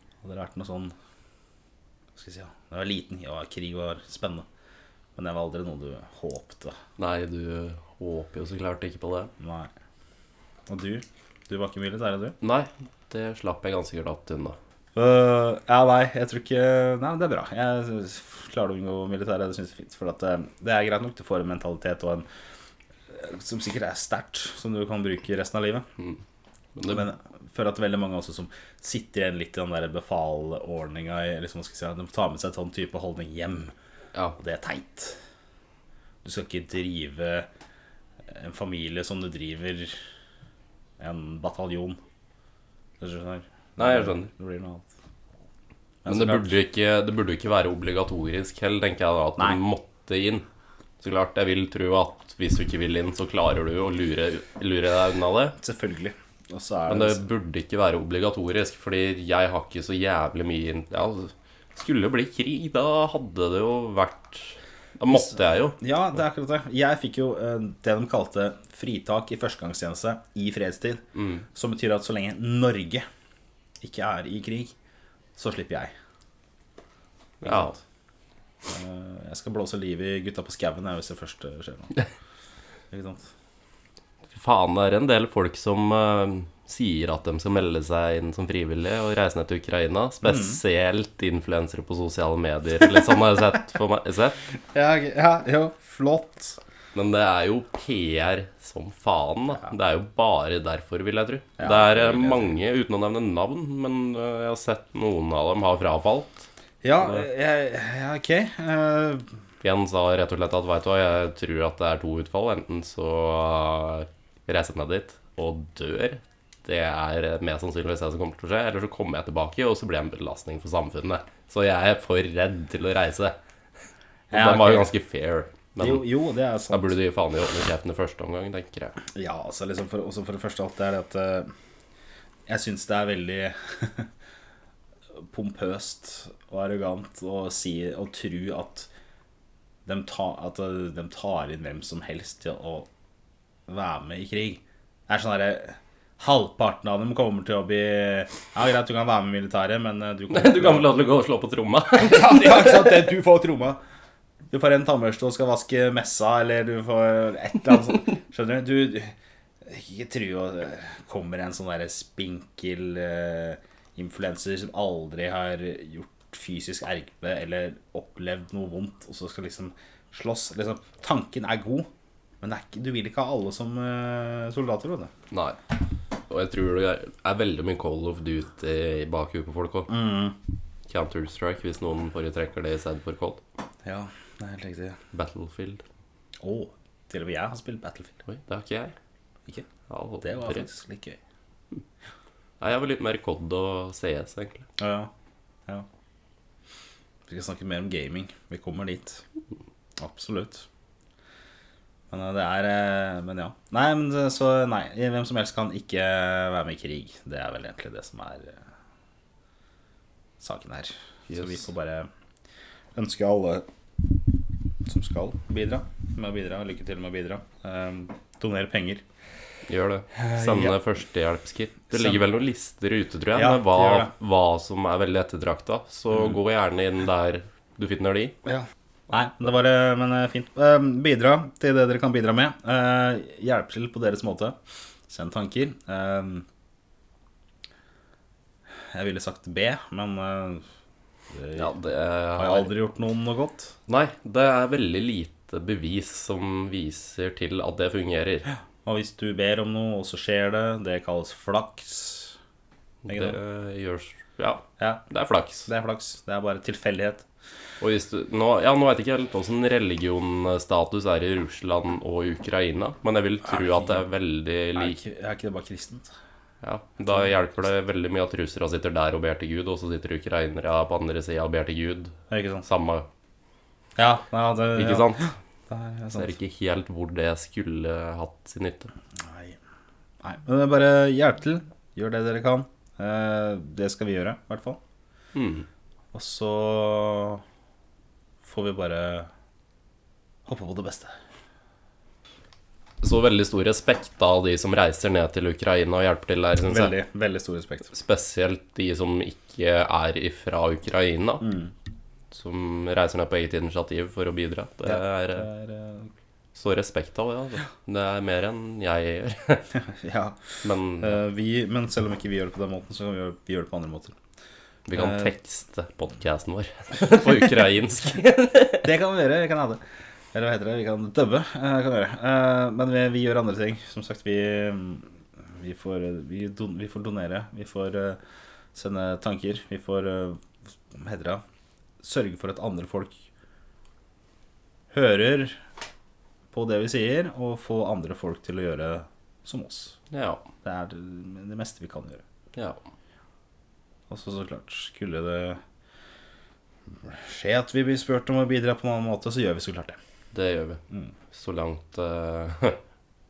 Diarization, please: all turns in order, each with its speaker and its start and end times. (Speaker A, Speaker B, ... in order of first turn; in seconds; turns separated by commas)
Speaker A: 0.2-0.9, Speaker A: 2.1-4.5, Speaker A: 5.2-6.8, Speaker B: 7.0-9.3, Speaker A: 9.4-9.7, Speaker A: 10.7-12.4, Speaker B: 12.4-14.6, Speaker A: 15.0-22.2, Speaker A: 23.1-25.9, Speaker B: 26.8-27.1, Speaker A: 26.8-33.7, Speaker A: 34.4-35.2, Speaker A: 36.2-37.5, Speaker A: 38.3-40.0, Speaker A: 41.0-42.0, Speaker A: 43.0-44.9, Speaker B: 43.8-44.3, Speaker A: 46.0-46.6, Speaker B: 46.1-50.5, Speaker B: 51.0-55.5, Speaker A: 55.6-57.2, Speaker B: 56.9-65.8, Speaker A: 65.1-71.0, Speaker B: 71.1-71.5, Speaker A: 71.5-73.0, Speaker A: 73.8-74.7, Speaker A: 75.4-75.9, Speaker B: 77.4-77.8, Speaker A: 77.4-77.8, Speaker A: 78.7-82.0, Speaker A: 82.9-83.3, Speaker B: 84.3-94.4, Speaker A: 90.2-90.6, Speaker A: 94.7-96.6, Speaker B: 97.0-106.5, Speaker A: 101.6-102.5, Speaker A: 106.8-109.2, Speaker B: 109.6-123.4, Speaker A: 124.3-124.9, Speaker B: 124.3-126.1, Speaker A: 125.8-127.0, Speaker B: 126.7-129.0, Speaker A: 129.1-131.5, Speaker A: 132.5-134.1, Speaker A: 135.2-138.9, Speaker A: 139.9-142.9, Speaker A: 143.7-150.9, Speaker B: 150.3-153.1, Speaker A: 152.0-153.8, Speaker A: 154.5-159.1, Speaker A: 159.6-171.9, Speaker A: 172.4-175.1, Speaker B: 175.3-175.6, Speaker B: 176.3-179.9, Speaker A: 179.9-180.4, Speaker B: 180.9-183.4, Speaker A: 183.8-185.0, Speaker B: 185.1-185.8, Speaker A: 186.4-188.2, Speaker B: 188.3-188.9, Speaker B: 189.9-190.7, Speaker A: 190.2-191.2, Speaker B: 192.6-194.7, Speaker A: 194.8-195.1, Speaker A: 197.3-199.2, Speaker A: 200.0-200.7, Speaker A: 202.1-208.6, Speaker A: 210.4-212.1, Speaker B: 211.3-211.6, Speaker A: 212.9-213.6, Speaker A: 214.9-219.0, Speaker B: 219.7-228.3, Speaker A: 220.1-220.8, Speaker A: 221.9-222.2, Speaker A: 223.3-224.1, Speaker A: 228.4-234.6, Speaker A: 235.1-236.5, Speaker A: 238.9-240.6, Speaker A: 241.3-241.7, Speaker B: 241.6-242.7, Speaker A: 242.4-243.7, Speaker B: 243.9-248.5, Speaker A: 248.8-252.4, Speaker B: 253.1-255.7, Speaker A: 253.1-253.4, Speaker A: 254.8-255.0, Speaker A: 255.7-257.2, Speaker B: 257.8-265.0, Speaker A: 263.4-264.0, Speaker A: 264.8-266.1, Speaker B: 266.6-272.1, Speaker A: 267.1-267.4, Speaker A: 272.3-272.6, Speaker B: 272.6-273.1, Speaker A: 274.0-276.3, Speaker B: 274.8-275.3, Speaker B: 276.1-278.9, Speaker A: 279.2-279.6, Speaker A: 280.2-284.8, Speaker B: 285.4-285.7, Speaker A: 286.1-287.4, Speaker A: 288.4-289.3, Speaker A: 290.5-291.1, Speaker B: 293.0-297.0, Speaker A: 296.6-297.9, Speaker B: 297.9-301.5, Speaker A: 301.4-301.7, Speaker B: 302.3-305.5, Speaker A: 304.9-306.1, Speaker B: 306.5-309.7, Speaker A: 309.8-310.4, Speaker B: 310.6-311.2, Speaker A: 311.0-314.1, Speaker B: 314.9-318.9, Speaker A: 314.9-315.3, Speaker A: 318.8-319.8, Speaker A: 320.3-328.2, Speaker A: 328.8-331.4, Speaker A: 332.0-333.1, Speaker A: 334.9-335.6, Speaker A: 336.5-340.0, Speaker B: 340.1-340.4, Speaker A: 340.6-342.2, Speaker A: 344.1-345.6, Speaker A: 347.0-350.0, Speaker B: 350.3-352.8